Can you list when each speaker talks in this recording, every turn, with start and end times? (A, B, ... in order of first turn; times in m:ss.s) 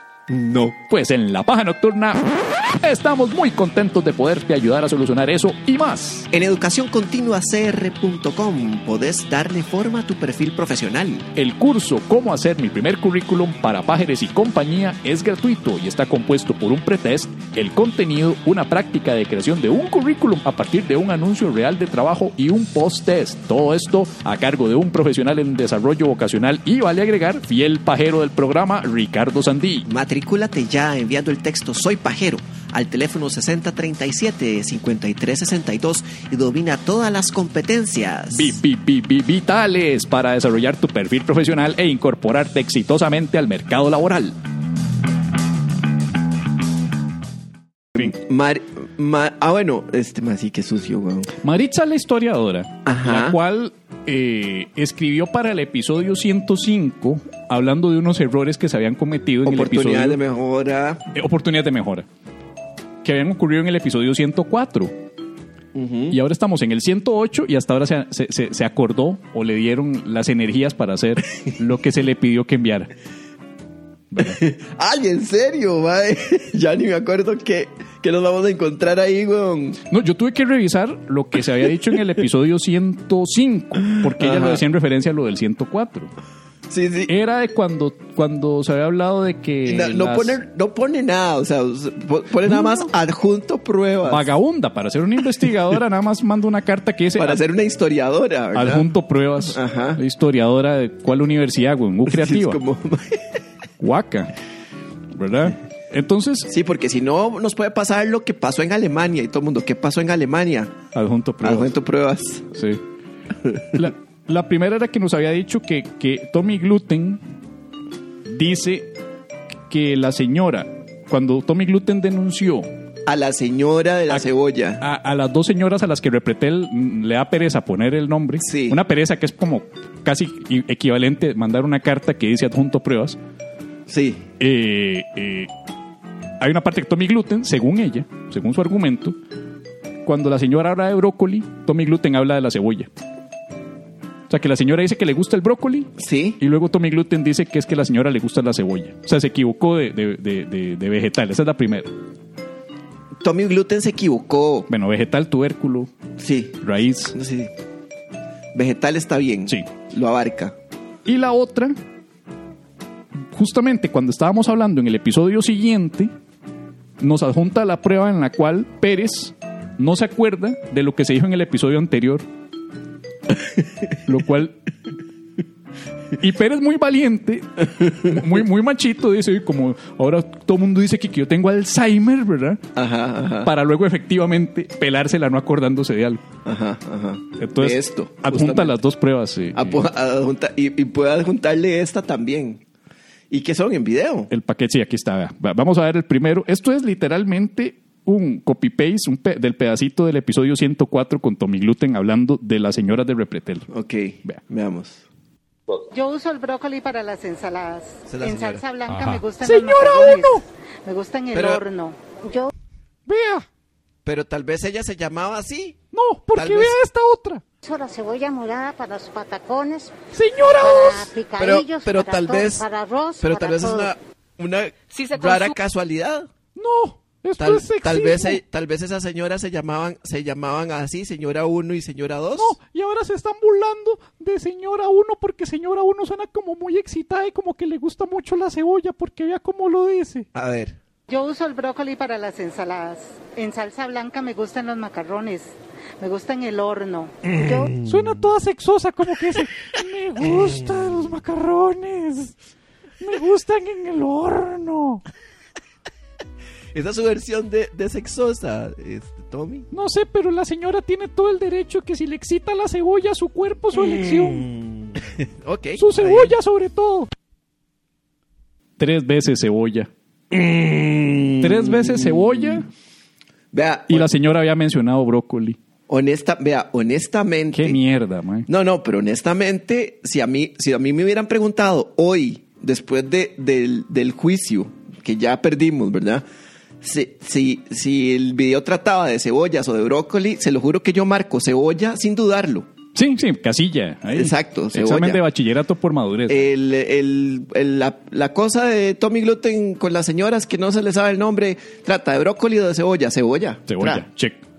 0:00.3-0:00.8 A
0:00.9-0:06.3 B
0:06.3-0:11.3 A
0:11.4-0:29.9 B
0:29.9-0:38.6 A
0:38.3-0:44.4 B
0:48.0-0:51.3 A
0:51.4-1:00.2 B
0:52.9-0:53.4 A
0:59.4-1:01.0 A
1:01.1-1:02.1 B
1:03.0-1:05.0 B
1:05.8-1:06.2 A
1:06.1-1:12.9 B
1:14.1-1:14.4 B
1:14.2-1:19.8 A
1:19.9-1:26.1 B
1:23.9-1:24.6 A
1:26.7-1:27.1 A
1:27.1-1:30.4 B
1:29.6-1:34.3 A
1:32.4-1:32.9 B
1:34.1-1:37.4 B
1:37.2-1:38.9 A
1:38.5-1:42.6 B
1:39.4-1:40.0 A
1:42.1-1:43.3 A
1:43.8-1:44.3 B
1:45.1-1:46.5 B
1:46.5-1:50.8 A
1:50.9-1:51.7 B
1:51.4-1:52.5 A
1:52.5-1:52.8 B
1:53.5-1:53.8 A
1:53.7-1:57.2 B
1:58.2-1:58.9 B
1:59.7-2:02.7 B
2:03.1-2:04.8 A
2:04.8-2:13.2 B
2:08.4-2:08.8 A
2:13.9-2:14.3 A
2:14.4-2:15.5 B
2:16.4-2:19.2 B
2:20.0-2:22.9 B
2:24.3-2:31.9 B
2:26.0-2:26.4 A
2:33.2-2:34.7 A
2:34.7-2:35.9 B
2:36.2-2:36.6 A
2:36.6-2:37.2 B
2:37.1-2:37.5 A
2:38.5-2:40.6 A
2:41.0-2:41.8 B
2:43.2-2:46.1 B
2:47.0-2:52.3 B
2:54.0-2:54.6 B
2:56.2-3:02.6 B
3:02.8-3:03.5 A
3:03.4-3:06.2 B
3:06.4-3:08.8 A
3:07.4-3:09.9 B
3:09.6-3:12.6 A
3:13.3-3:14.3 A
3:14.3-3:23.7 B
3:23.7-3:25.0 A
3:25.9-3:32.5 C
3:28.1-3:28.6 A
3:28.9-3:30.4 B
3:31.3-3:31.6 A
3:33.1-3:33.5 B
3:34.0-3:35.8 A
3:35.9-3:37.4 B
3:36.3-3:36.8 A
3:37.6-3:40.0 C
3:40.1-3:41.1 B
3:40.6-3:43.9 C
3:41.4-3:42.6 A
3:43.2-3:46.3 A
3:45.0-3:45.5 C
3:46.6-3:48.4 B
3:47.4-3:52.6 A
3:52.4-4:00.3 B
4:00.3-4:00.8 A
4:01.1-4:07.8 C
4:07.8-4:12.4 B
4:13.0-4:15.0 B
4:16.7-4:19.7 A
4:19.7-4:24.5 B
4:24.5-4:26.4 A
4:25.8-4:27.1 B
4:28.8-4:29.9 B
4:30.3-4:32.6 A
4:31.4-4:32.7 B
4:33.5-4:34.2 A
4:33.9-4:35.6 B
4:35.9-4:37.8 A
4:37.5-4:38.5 B
4:38.5-4:46.2 A
4:46.8-4:52.7 A
4:53.0-4:56.5 B
4:54.1-4:55.2 A
4:56.3-5:04.0 A
5:03.7-5:04.4 B